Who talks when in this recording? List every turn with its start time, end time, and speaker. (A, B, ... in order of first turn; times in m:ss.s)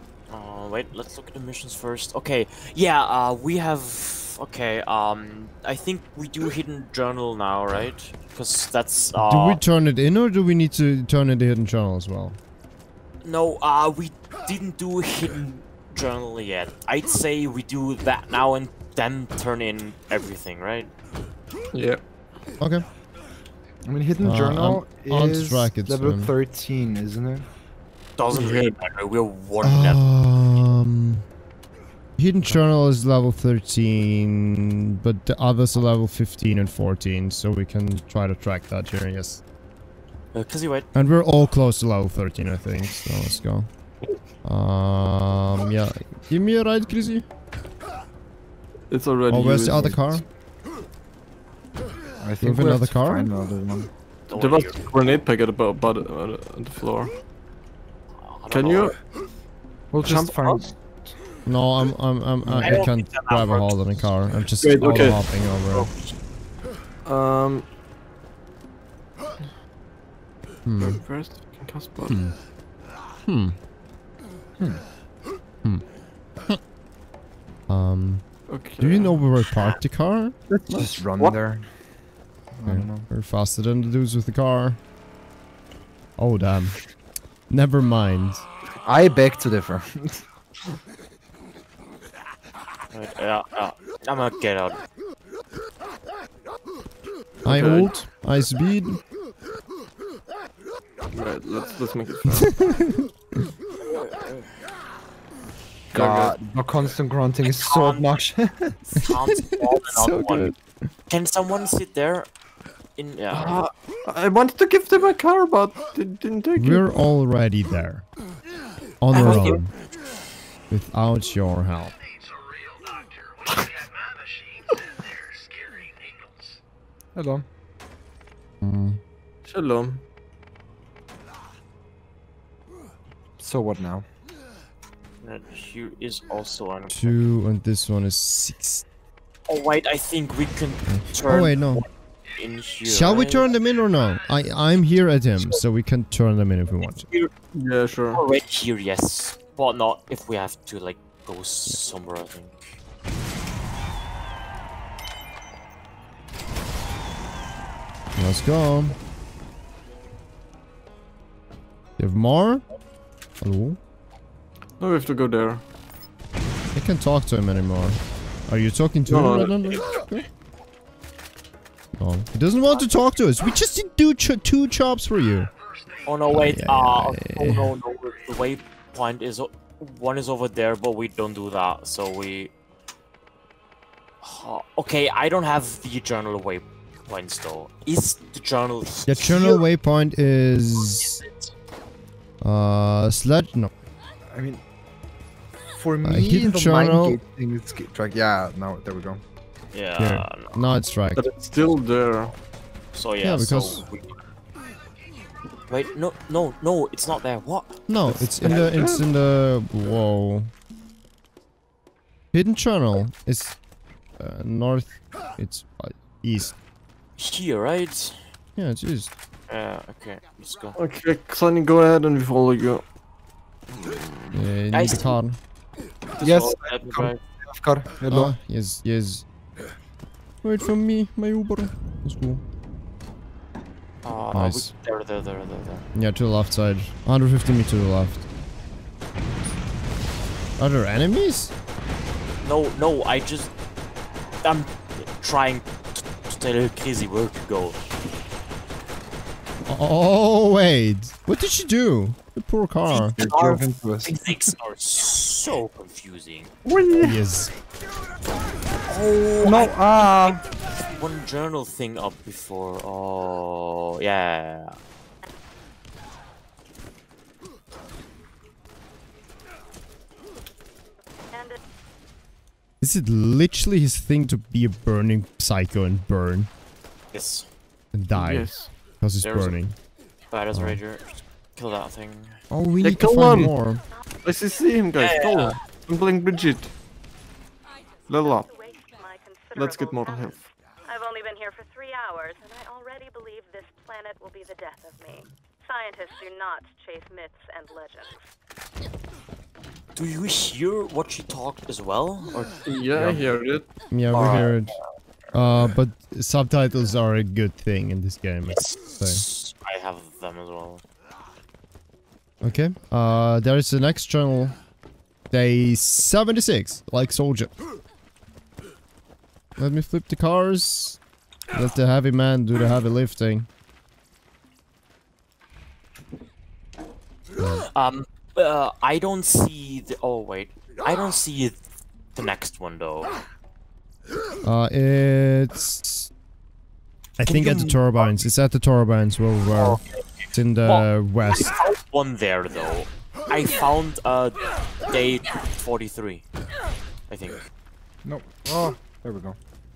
0:00.3-0:09.6 A
0:09.2-0:12.4 B
0:13.2-0:20.9 A
0:21.7-0:22.0 C
0:22.6-0:22.8 B
0:23.9-0:27.5 D
0:24.2-0:26.3 B
0:28.2-0:30.0 A
0:28.3-0:28.6 C
0:29.6-0:31.2 B
0:32.2-0:39.4 B
0:40.3-0:40.9 A
0:40.9-0:43.7 B
0:44.4-0:47.2 B
0:48.9-0:50.0 C
0:49.3-0:50.2 B
0:52.2-0:53.9 D
0:52.4-0:53.3 B
0:54.3-0:54.8 A
0:54.3-0:57.2 C
0:58.2-0:58.9 A
0:58.5-0:59.0 C
0:59.9-1:01.2 D
1:00.0-1:00.7 C
1:01.5-1:05.9 B
1:02.4-1:02.8 D
1:02.6-1:04.1 A
1:04.6-1:05.2 C
1:05.0-1:06.2 A
1:07.0-1:07.7 C
1:10.7-1:11.0 B
1:10.8-1:12.2 C
1:12.1-1:12.4 B
1:13.2-1:13.6 B
1:17.7-1:21.0 B
1:18.5-1:19.2 C
1:20.5-1:21.7 D
1:22.5-1:23.1 D
1:22.6-1:24.8 B
1:26.2-1:26.8 B
1:27.5-1:28.4 B
1:28.8-1:30.2 D
1:32.9-1:34.8 A
1:37.4-1:39.0 B
1:37.4-1:37.9 C
1:41.1-1:42.5 C
1:42.4-1:43.1 B
1:43.8-1:44.5 A
1:45.9-1:46.4 C
1:45.9-1:48.8 D
1:47.4-1:48.2 A
1:48.9-1:50.5 A
1:49.5-1:50.9 B
1:51.1-1:52.3 A
1:53.0-1:53.6 A
1:53.3-1:56.9 C
1:56.6-1:58.1 B
1:59.0-1:59.7 B
1:59.1-1:59.6 A
2:00.7-2:01.9 B
2:07.2-2:07.4 D
2:08.6-2:09.0 B
2:09.4-2:10.0 C
2:13.4-2:14.1 D
2:15.2-2:17.2 A
2:16.9-2:18.8 B
2:19.5-2:23.5 A
2:20.9-2:21.8 B
2:22.8-2:27.1 B
2:26.8-2:27.3 A
2:27.5-2:28.2 C
2:28.1-2:32.6 A
2:38.2-2:39.0 B
2:42.0-2:42.6 B
2:43.4-2:43.8 B
2:44.8-2:45.6 C
2:46.8-2:50.3 B
2:49.1-2:49.8 C
2:52.0-2:55.5 B
2:56.0-3:02.5 A
2:56.3-2:57.7 B
3:04.2-3:09.6 A
3:09.1-3:11.2 B
3:10.8-3:11.5 A
3:12.4-3:13.7 B
3:14.3-3:14.6 D
3:15.8-3:19.2 D
3:16.0-3:17.2 B
3:19.7-3:20.6 A
3:20.0-3:21.3 B
3:21.2-3:22.4 C
3:22.9-3:24.2 A
3:23.2-3:23.8 B
3:25.7-3:27.8 A
3:27.9-3:30.5 B
3:28.4-3:29.1 C
3:32.3-3:33.6 B
3:34.2-3:36.6 B
3:37.2-3:38.2 A
3:38.6-3:39.1 B
3:39.5-3:40.8 A
3:40.8-3:42.8 C
3:43.8-3:44.2 C
3:44.3-3:45.4 B
3:44.7-3:45.2 A
3:46.2-3:46.6 C
3:46.2-3:48.3 D
3:46.6-3:47.2 A
3:48.1-3:49.2 B
3:50.4-3:52.4 B
3:54.0-3:55.9 A
3:54.3-3:54.7 B
3:56.0-3:58.2 B
4:00.6-4:01.5 B
4:02.4-4:03.5 A
4:04.4-4:07.8 A
4:09.7-4:13.2 B
4:12.9-4:16.5 A
4:13.2-4:14.5 D
4:16.7-4:17.1 D
4:17.0-4:17.5 B
4:18.9-4:24.8 A
4:19.4-4:20.4 D
4:32.8-4:36.5 B
4:37.1-4:37.5 A
4:37.9-4:39.8 B
4:38.1-4:38.7 C
4:39.2-4:39.6 A
4:40.3-4:42.4 A
4:40.5-4:40.8 B
4:42.5-4:43.8 B
4:42.8-4:43.6 C
4:44.2-4:46.7 C
4:45.0-4:45.6 A
4:48.1-4:48.5 C
4:48.7-4:49.9 E
4:49.5-4:50.4 C
4:50.9-4:58.2 E
5:00.0-5:02.6 A
5:02.7-5:03.7 C
5:03.0-5:03.3 B
5:03.9-5:04.8 B
5:04.1-5:04.8 A
5:05.3-5:09.2 B
5:08.5-5:10.8 A
5:12.4-5:14.6 B
5:15.3-5:17.6 B
5:19.6-5:21.0 B
5:21.5-5:23.5 B
5:27.4-5:27.6 B
5:27.7-5:31.6 A
5:32.1-5:33.2 A
5:34.4-5:36.1 B
5:37.2-5:39.8 B
5:37.3-5:37.8 A
5:39.5-5:46.2 A
5:40.3-5:41.6 B
5:47.1-5:47.4 A
5:48.0-5:49.4 D